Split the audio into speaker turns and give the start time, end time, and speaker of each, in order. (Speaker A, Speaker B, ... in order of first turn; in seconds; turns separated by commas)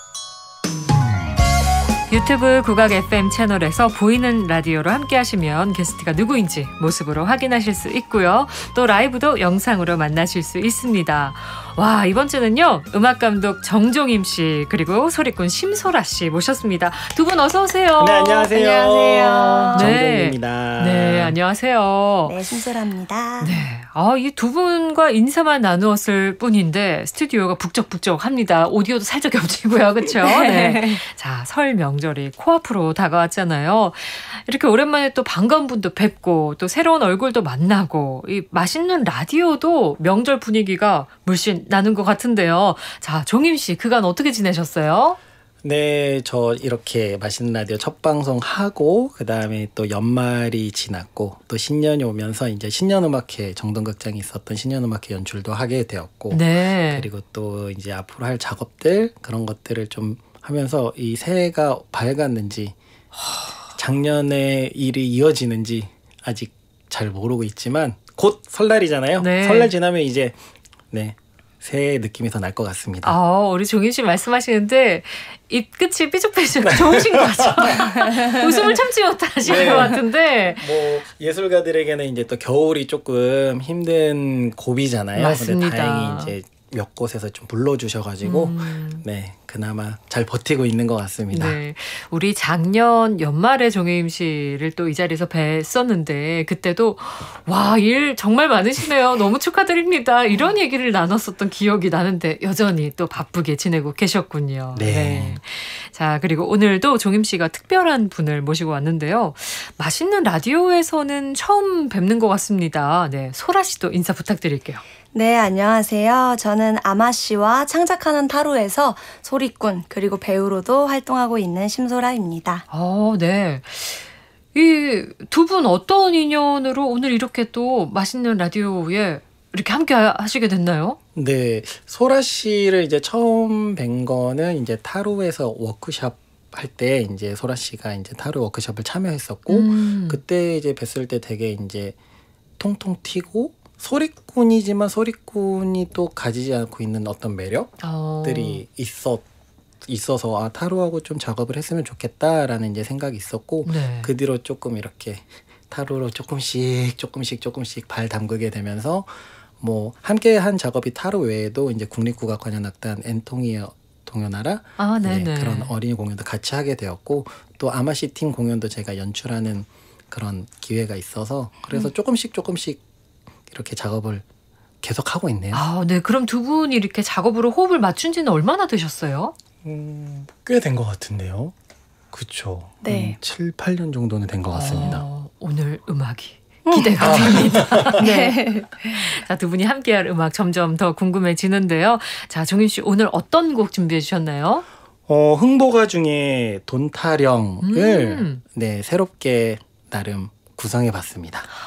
Speaker A: 2.1-18.5, Speaker B: 18.0-21.4, Speaker C: 18.5-19.9, Speaker A: 19.8-22.4, Speaker C: 22.2-23.6, Speaker A: 23.4-45.2, Speaker C: 30.2-31.0, Speaker B: 45.6-62.8, Speaker A: 56.3-57.1, Speaker A: 63.2-63.5, Speaker B: 63.7-70.4, Speaker A: 69.2-69.7, Speaker B: 70.9-73.2, Speaker A: 73.0-80.6, Speaker B: 76.6-77.8, Speaker B: 79.4-91.6, Speaker A: 85.2-86.3, Speaker A: 88.2-89.0, Speaker A: 91.3-114.8, Speaker B: 104.8-105.4, Speaker C: 115.1-122.7, Speaker A: 122.7-131.0, Speaker B: 131.2-141.9, Speaker A: 139.5-140.2, Speaker B: 142.6-149.3, Speaker A: 147.8-148.6, Speaker B: 149.8-172.8, Speaker A: 153.7-154.1, Speaker A: 164.8-165.7, Speaker B: 173.5-174.2, Speaker B: 174.8-175.6, Speaker A: 175.5-179.3, Speaker B: 179.6-181.5, Speaker B: 182.1-185.0, Speaker C: 182.8-183.2, Speaker A: 184.5-194.7, Speaker C: 186.7-189.2, Speaker B: 187.0-188.1, Speaker B: 195.1-201.5, Speaker A: 197.6-198.4